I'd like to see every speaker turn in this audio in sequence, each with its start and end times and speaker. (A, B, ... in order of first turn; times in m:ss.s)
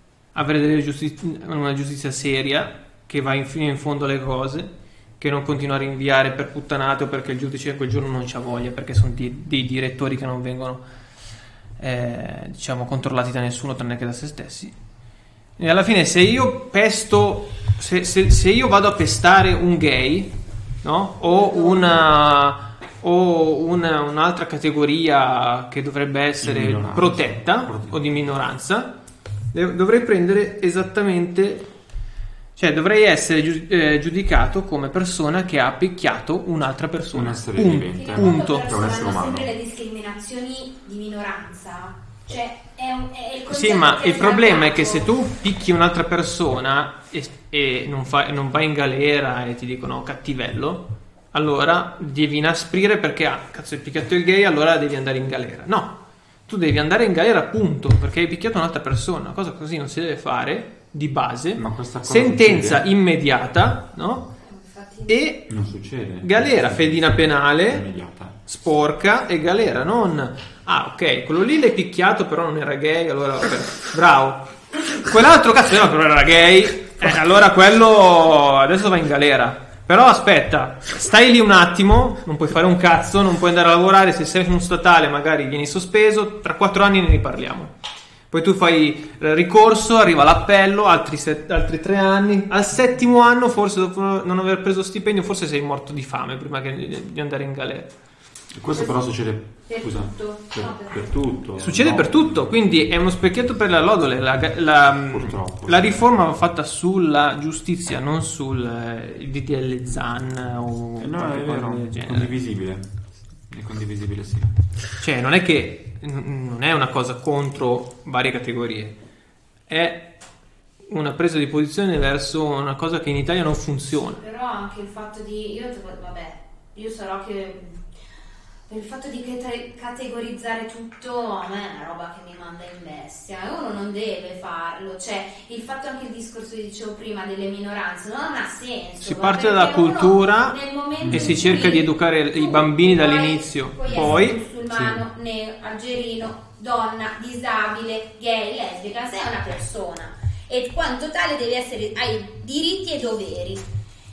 0:00.3-0:10.8 A
0:11.8-0:14.8 A
0:15.6-0:28.9 A
0:21.2-0:22.0 B
0:26.4-0:28.1 C
0:29.5-0:31.7 A
0:32.6-0:38.7 A
0:37.1-0:39.5 C
0:37.9-0:45.1 B
0:43.5-0:56.0 A
0:56.5-1:04.3 A
1:01.6-1:02.8 C
1:04.5-1:05.2 B
1:05.1-1:05.6 A
1:05.5-1:08.4 C
1:06.2-1:07.9 A
1:08.5-1:27.7 A
1:28.3-1:37.9 A
1:38.5-1:42.5 C
1:38.7-1:39.1 B
1:39.7-1:41.1 B
1:41.6-1:52.4 A
1:45.1-1:46.0 C
1:51.0-1:52.9 C
1:53.5-1:54.5 C
1:55.0-1:59.0 A
1:59.7-2:00.1 A
2:00.9-2:04.2 A
2:04.2-2:07.8 B
2:08.7-2:33.7 B
2:19.0-2:24.4 A
2:21.0-2:21.7 C
2:24.7-2:25.0 C